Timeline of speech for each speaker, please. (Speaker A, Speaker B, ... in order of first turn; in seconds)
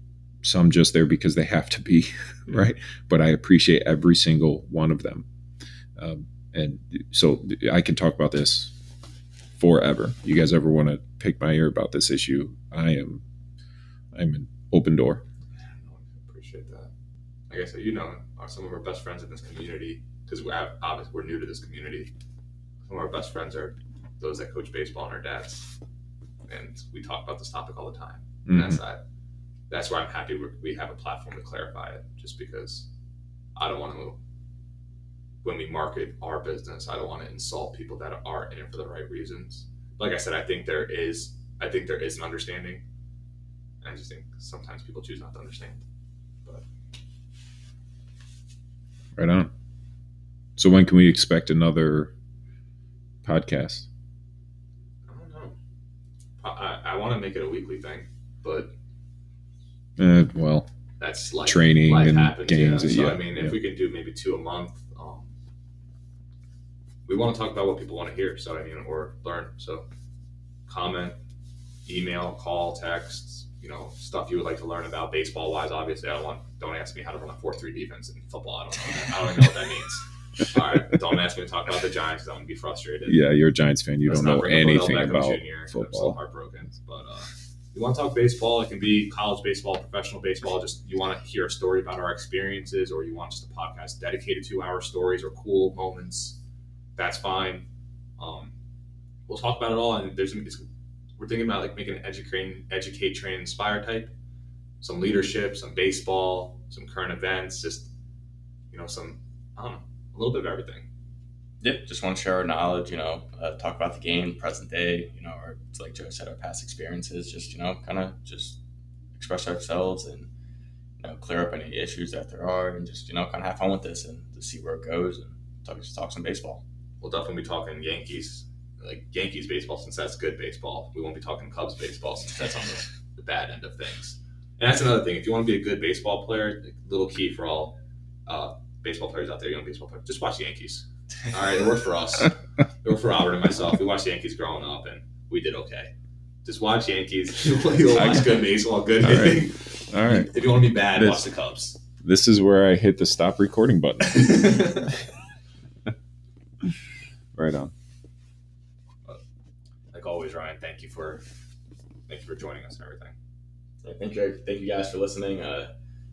Speaker A: 0.4-5.2, 6.0-8.8, 9.6-13.2, 14.1-15.2, 28.4-28.8, 49.1-49.5, 50.6-52.1, 53.2-53.9, 60.0-60.7, 61.4-63.6, 83.0-86.2, 147.9-148.4, 149.0-150.3, 150.9-151.2, 152.0-154.8, 157.3-157.7
Speaker B: 15.6-16.9, 17.5-22.1, 22.8-25.7, 26.5-29.0, 29.7-32.9, 33.5-34.2, 35.4-42.8, 43.8-45.8, 55.1-55.5, 56.4-58.7, 61.0-65.3, 67.0-69.8, 70.7-71.2, 71.8-83.2, 84.0-96.4, 97.0-97.7, 98.2-98.5, 99.3-100.7, 101.2-104.1, 104.8-107.9, 108.7-110.9, 127.0-132.6, 133.1-137.8, 138.3-145.9, 146.4-151.8, 154.0-155.0, 159.9-161.2, 162.1-163.1
Speaker C: 111.6-118.6, 119.2-120.3, 121.0-126.6, 132.3-132.8, 163.8-165.7